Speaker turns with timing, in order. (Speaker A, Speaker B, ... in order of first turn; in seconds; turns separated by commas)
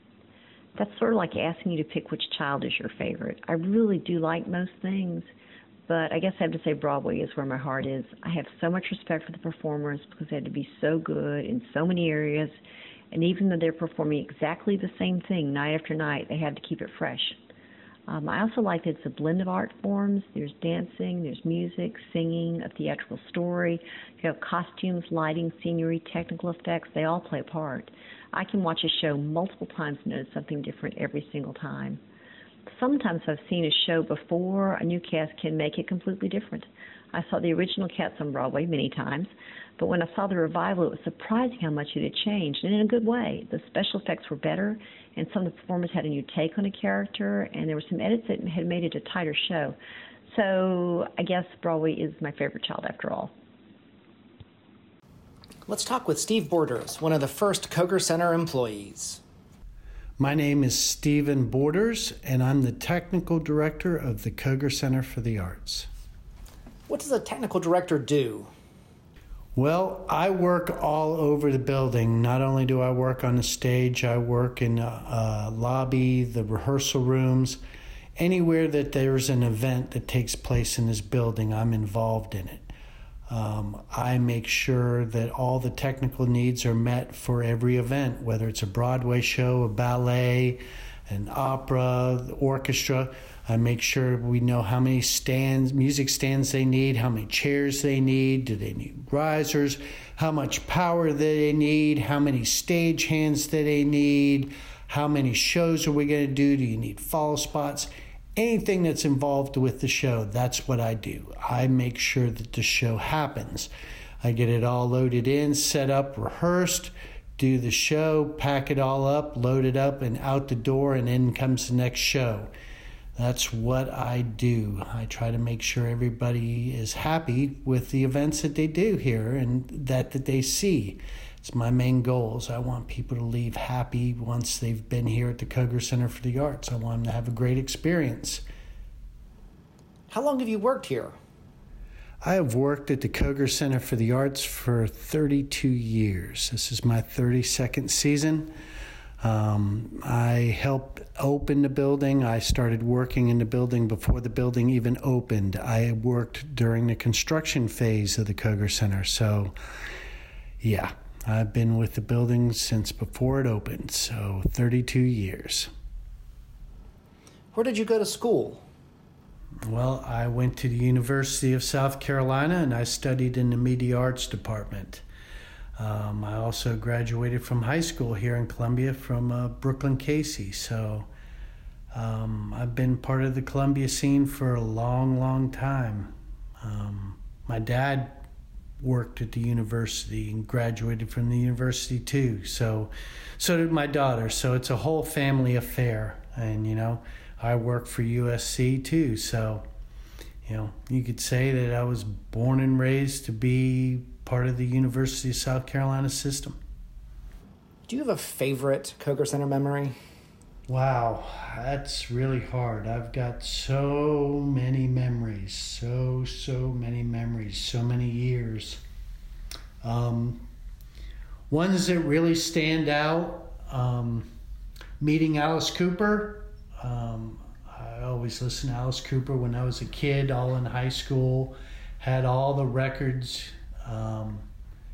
Speaker A: 0.8-5.3, Speaker A: 5.9-12.6, Speaker A: 13.1-17.4, Speaker A: 18.1-32.0, Speaker A: 32.7-49.8, Speaker A: 50.3-53.3, Speaker B: 55.7-59.2, Speaker C: 60.2-65.9, Speaker B: 66.9-68.5, Speaker C: 69.6-77.6, Speaker C: 78.2-82.7, Speaker C: 83.3-113.7, Speaker C: 114.2-122.5, Speaker C: 123.2-138.4, Speaker B: 140.1-141.2, Speaker C: 142.2-148.5, Speaker C: 149.2-159.6, Speaker C: 160.6-165.7, Speaker B: 167.5-168.7, Speaker C: 169.6-175.0, Speaker C: 175.8-181.1, Speaker C: 181.9-188.2, Speaker C: 188.8-199.7, Speaker C: 200.4-206.6, Speaker B: 207.9-210.0, Speaker C: 210.7-218.8, Speaker C: 219.8-220.5, Speaker C: 221.5-224.3, Speaker C: 225.0-234.5